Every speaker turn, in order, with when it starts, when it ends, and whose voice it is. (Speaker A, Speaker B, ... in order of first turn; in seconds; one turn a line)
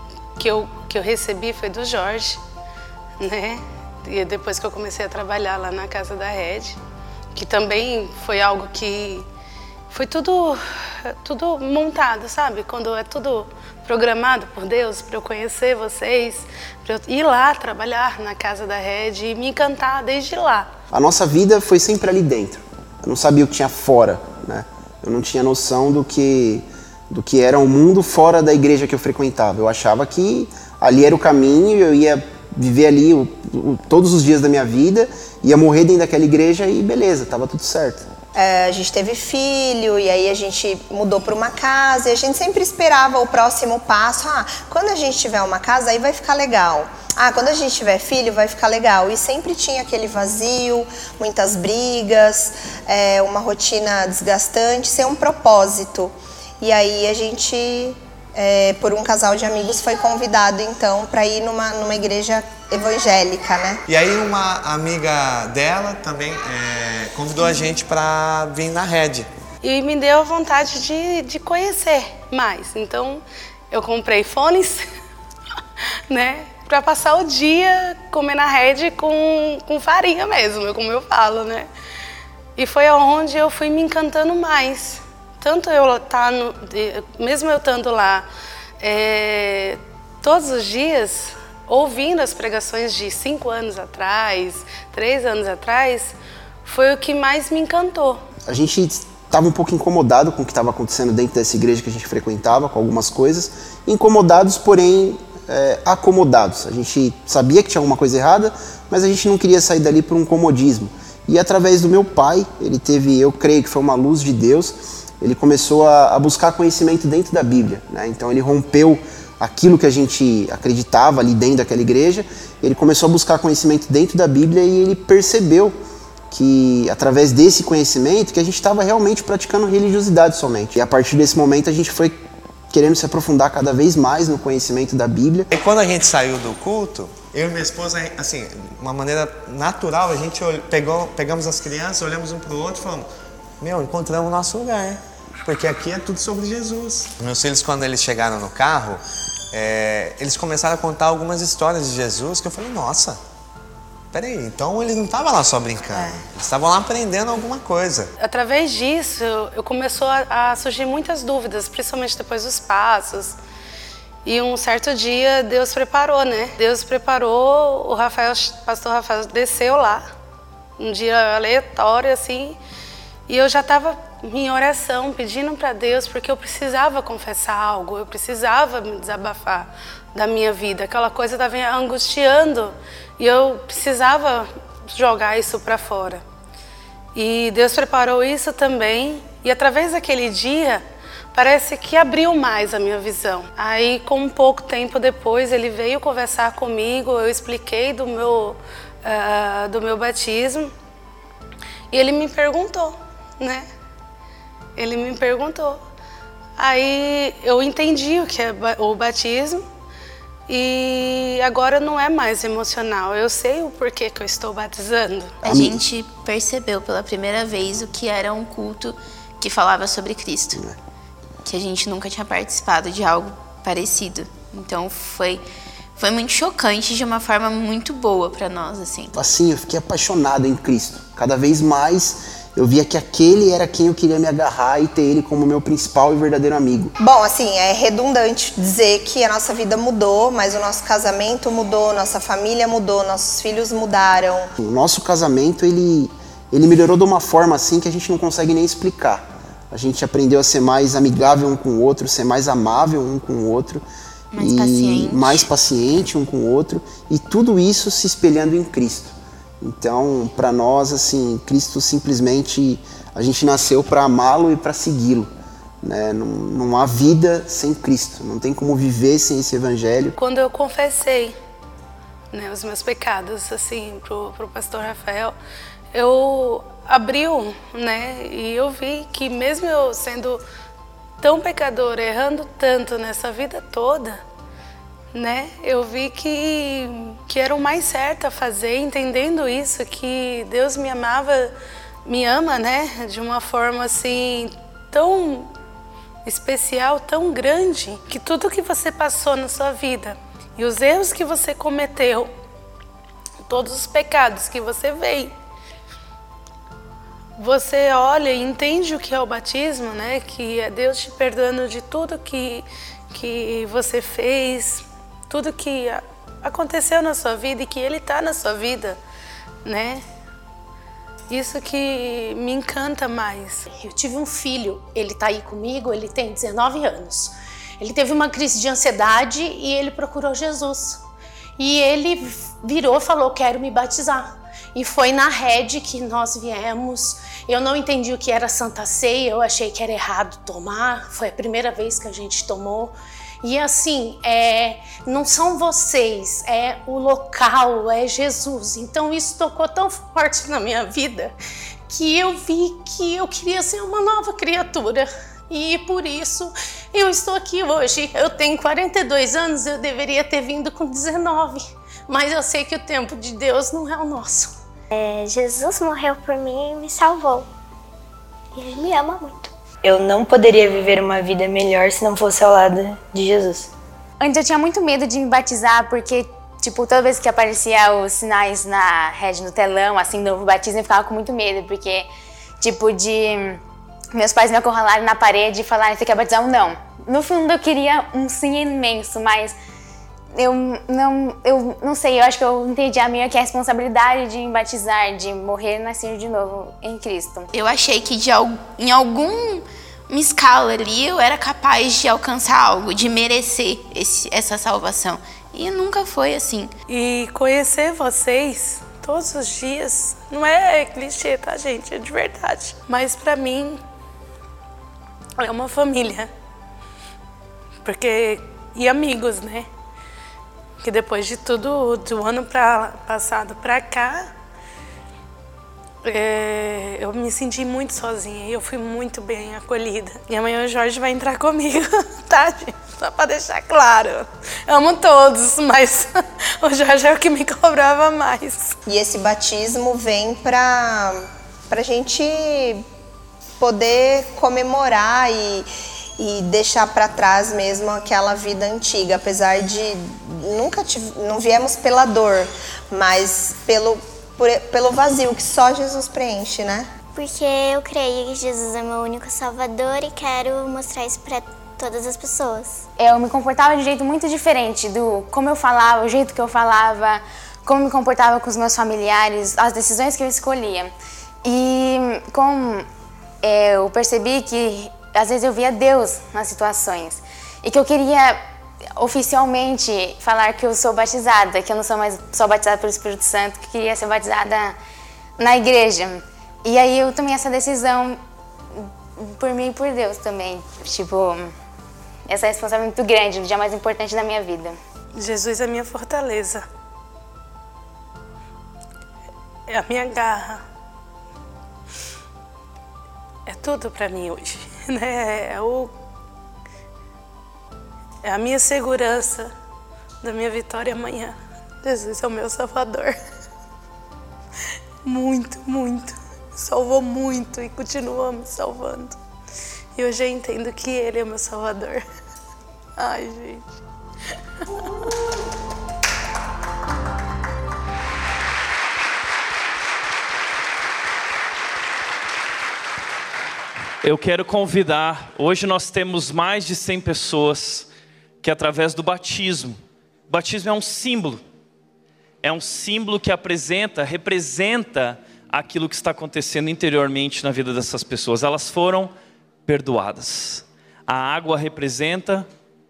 Speaker A: 0.4-2.4
Speaker A: 3.2-6.8
Speaker A: 7.3-9.3
Speaker A: 9.9-20.7
Speaker B: 20.9-38.1
Speaker C: 38.4-63.8
Speaker D: 63.9-69.3
Speaker A: 69.6-74.9
Speaker A: 76.1-81.7
Speaker A: 82.6-88.3
Speaker A: 88.8-96.1
Speaker A: 96.7-98.2
Speaker B: 98.5-125.8
Speaker B: 126.3-132.2
Speaker B: 132.7-135.5
Speaker D: 135.5-143.1
Speaker D: 143.6-149.0
Speaker D: 149.5-153.2
Speaker D: 154.1-158.1
Speaker A: 158.2-163.4
Speaker A: 164.2-170.1
Speaker A: 170.8-172.6
Speaker A: 173.3-186.2
Speaker A: 187.2-200.7
Speaker A: 201.9-203.7
Speaker A: 204.8-205.8
Speaker A: 206.6-209.6
Speaker A: 210.5-215.4
Speaker E: 215.4-220.6
Speaker B: 215.4-215.8
Speaker E: 221.4-225.4
Speaker E: 226.0-229.2
Speaker B: 229.2-236.9
Speaker C: 237.0-244.5
Speaker B: 244.6-253.8
Speaker E: 254.3-255.5
Speaker B: 254.4-265.3
Speaker B: 265.8-270.2
Speaker A: 270.2-271.4
Speaker A: 272.3-275.4
Speaker A: 275.9-280.4
Speaker A: 281.2-284.2
Speaker A: 285.1-291.5
Speaker A: 292.1-295.5
Speaker A: 296.2-302.3
Speaker A: 303.4-305.3
Speaker A: 307.4-319.0
Speaker A: 319.6-320.1
Speaker A: 321.3-323.7
Speaker F: 323.7-331.0
Speaker F: 331.6-351.3
Speaker F: 351.9-364.6
Speaker G: 364.9-367.5
Speaker G: 368.6-369.5
Speaker H: 369.8-373.7
Speaker I: 374.2-382.1
Speaker I: 382.6-383.6
Speaker I: 384.1-389.6
Speaker I: 390.4-397.5
Speaker E: 397.5-406.7
Speaker A: 406.9-413.8
Speaker A: 415.4-416.3
Speaker A: 417.9-419.7
Speaker A: 420.8-424.3
Speaker A: 426.0-438.8
Speaker C: 438.9-442.9
Speaker C: 443.6-456.9
Speaker G: 457.1-462.9
Speaker I: 463.0-470.9
Speaker I: 471.4-472.9
Speaker I: 473.4-478.4
Speaker I: 479.0-484.8
Speaker I: 485.4-488.2
Speaker I: 488.8-491.5
Speaker I: 492.3-494.8
Speaker A: 495.1-496.6
Speaker A: 499.7-500.6
Speaker A: 503.5-505.9
Speaker A: 508.2-509.5
Speaker A: 510.2-513.2
Speaker A: 515.1-519.2
Speaker A: 520.0-522.0
Speaker A: 523.0-523.8
Speaker A: 524.6-525.1
Speaker J: 534.0-537.9
Speaker J: 538.4-541.4
Speaker J: 542.4-549.1
Speaker J: 549.7-552.5